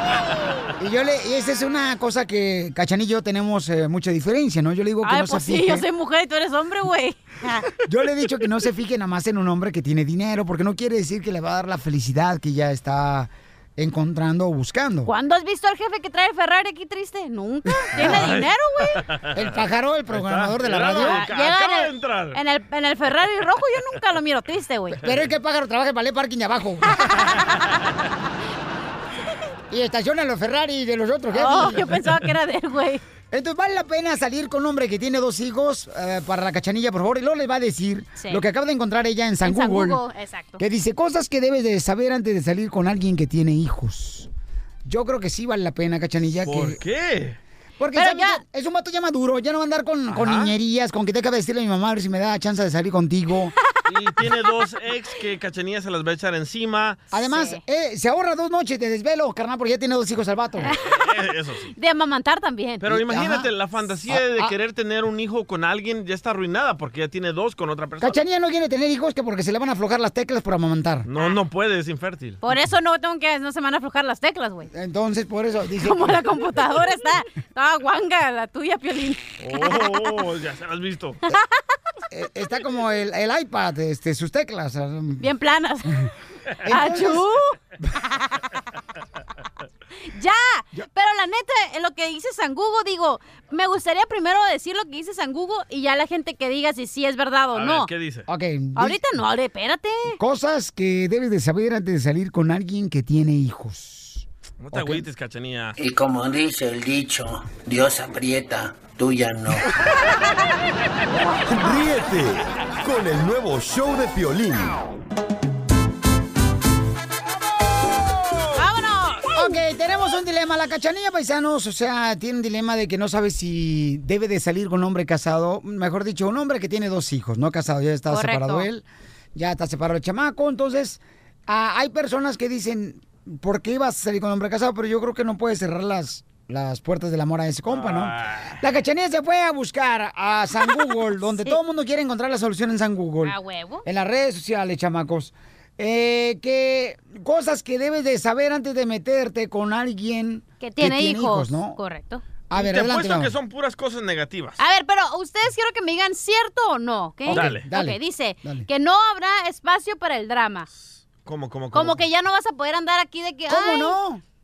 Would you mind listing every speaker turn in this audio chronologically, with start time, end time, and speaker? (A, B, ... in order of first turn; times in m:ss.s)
0:00.8-0:05.9 A
0:05.0-0:07.7 B
0:07.8-0:15.1 A
0:15.1-0:19.0 B
0:17.8-0:18.3 A
0:18.0-0:18.5 C
0:19.3-0:21.2 A
0:20.1-0:22.4 C
0:21.0-0:25.0 B
0:25.0-0:27.0 A
0:27.1-0:27.8 B
0:29.7-0:32.0 A
0:31.3-0:33.0 B
0:33.3-0:40.0 A
0:38.2-0:38.4 B
0:39.4-0:40.6 B
0:40.6-0:44.3 A
0:44.8-0:46.8 A
0:46.4-0:47.4 C
0:47.8-0:53.5 A
0:47.9-0:48.4 B
0:50.1-0:50.5 C
0:53.9-0:57.0 C
0:57.1-1:00.7 A
0:57.2-0:57.6 B
1:00.6-1:00.8 B
1:00.8-1:01.7 C
1:01.7-1:02.8 B
1:02.8-1:08.2 C
1:02.9-1:03.5 A
1:08.0-1:11.1 A
1:11.1-1:12.4 C
1:12.4-1:14.7 B
1:14.7-1:16.2 A
1:15.8-1:19.9 B
1:19.4-1:21.2 C
1:22.1-1:25.3 A
1:25.2-1:26.0 B
1:26.6-1:27.2 A
1:26.7-1:27.6 B
1:28.1-1:28.4 B
1:30.1-1:37.9 B
1:37.5-1:38.3 C
1:38.3-1:39.0 A
1:38.8-1:40.2 B
1:40.2-1:45.0 A
1:44.6-1:45.8 C
1:45.8-1:49.6 D
1:51.5-1:54.8 E
1:58.6-1:59.6 B
1:59.3-2:31.8 A
2:08.1-2:08.7 B
2:17.7-2:18.5 C
2:23.2-2:23.8 B
2:30.6-2:32.2 B
2:32.5-2:33.3 A
2:32.6-2:34.6 C
2:34.6-2:40.7 B
2:37.3-2:38.7 A
2:37.3-2:37.7 C
2:41.1-2:42.1 C
2:41.7-2:44.0 B
2:43.5-2:44.2 A